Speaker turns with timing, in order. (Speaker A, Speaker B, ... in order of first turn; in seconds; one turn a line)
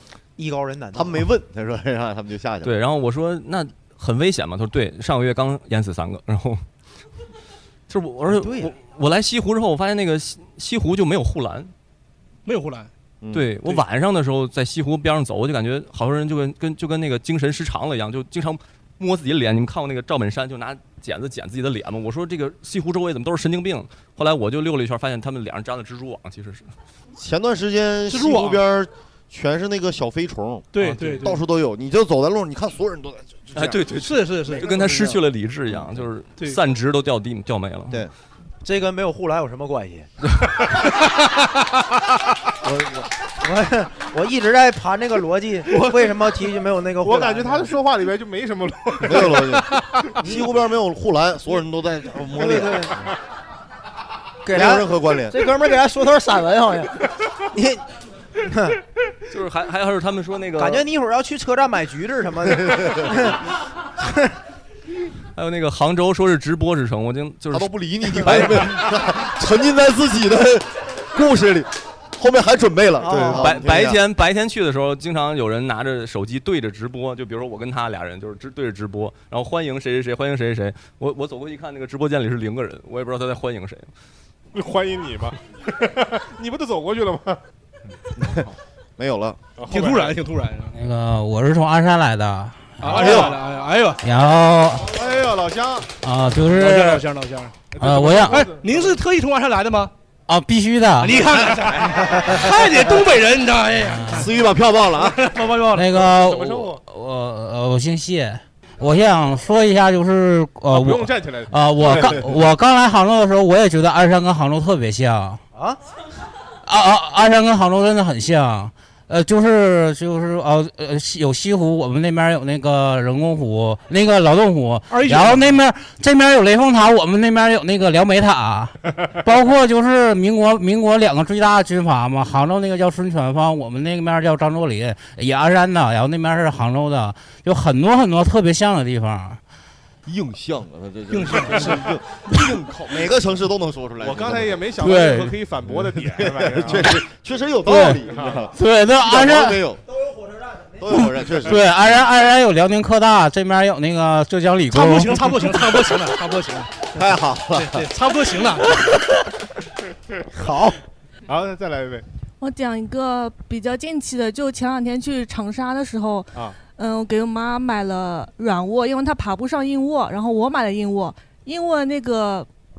Speaker A: 0.4-1.3
Speaker B: 0.9-2.7
Speaker C: 2.6-6.6
Speaker C: 7.9-11.7
Speaker A: 8.3-8.7
Speaker D: 12.4-12.9
Speaker B: 13.2-13.6
Speaker C: 13.3-26.7
Speaker B: 27.1-34.0
Speaker D: 28.1-28.6
Speaker D: 30.7-31.4
Speaker C: 30.9-31.2
Speaker C: 33.5-38.0
Speaker D: 34.0-34.7
Speaker A: 34.5-35.1
Speaker B: 34.7-35.1
Speaker B: 35.7-36.1
Speaker A: 38.6-40.1
Speaker B: 42.6-43.0
Speaker A: 43.4-47.8
Speaker E: 47.0-50.1
Speaker B: 49.0-53.1
Speaker A: 50.2-50.5
Speaker A: 52.3-53.0
Speaker A: 54.4-57.8
Speaker B: 54.5-55.5
Speaker A: 58.4-58.8
Speaker C: 59.3-60.9
Speaker A: 60.5-63.4
Speaker B: 62.6-63.1
Speaker A: 64.0-64.3
Speaker C: 65.3-68.8
Speaker B: 67.5-74.0
Speaker A: 73.0-73.6
Speaker C: 73.3-83.9
Speaker E: 84.5-87.4
Speaker B: 88.2-88.4
Speaker B: 89.0-89.4
Speaker E: 89.6-90.2
Speaker D: 89.7-90.7
Speaker F: 90.7-93.2
Speaker D: 92.8-94.0
Speaker B: 92.9-93.4
Speaker E: 93.0-93.2
Speaker F: 94.0-94.9
Speaker E: 94.9-95.9
Speaker F: 96.0-97.0
Speaker D: 96.5-97.5
Speaker E: 97.7-98.9
Speaker F: 97.8-98.4
Speaker D: 98.3-99.9
Speaker F: 100.3-101.2
Speaker D: 101.0-104.3
Speaker F: 103.9-104.3
Speaker B: 104.1-105.3
Speaker D: 105.0-106.1
Speaker F: 105.7-115.4
Speaker E: 106.0-106.8
Speaker E: 110.7-112.2
Speaker A: 115.5-115.8
Speaker F: 116.7-139.4
Speaker D: 124.9-125.6
Speaker B: 140.1-144.7
Speaker D: 141.1-141.9
Speaker E: 144.0-147.0
Speaker F: 144.8-145.4
Speaker B: 145.7-149.8
Speaker F: 147.6-148.0
Speaker E: 148.1-148.5
Speaker F: 148.5-149.6
Speaker A: 149.9-151.4
Speaker B: 150.8-151.9
Speaker F: 151.4-155.5
Speaker D: 154.7-156.9
Speaker B: 156.9-157.9
Speaker D: 157.5-158.8
Speaker A: 160.3-160.8
Speaker E: 161.3-162.1
Speaker G: 162.4-172.5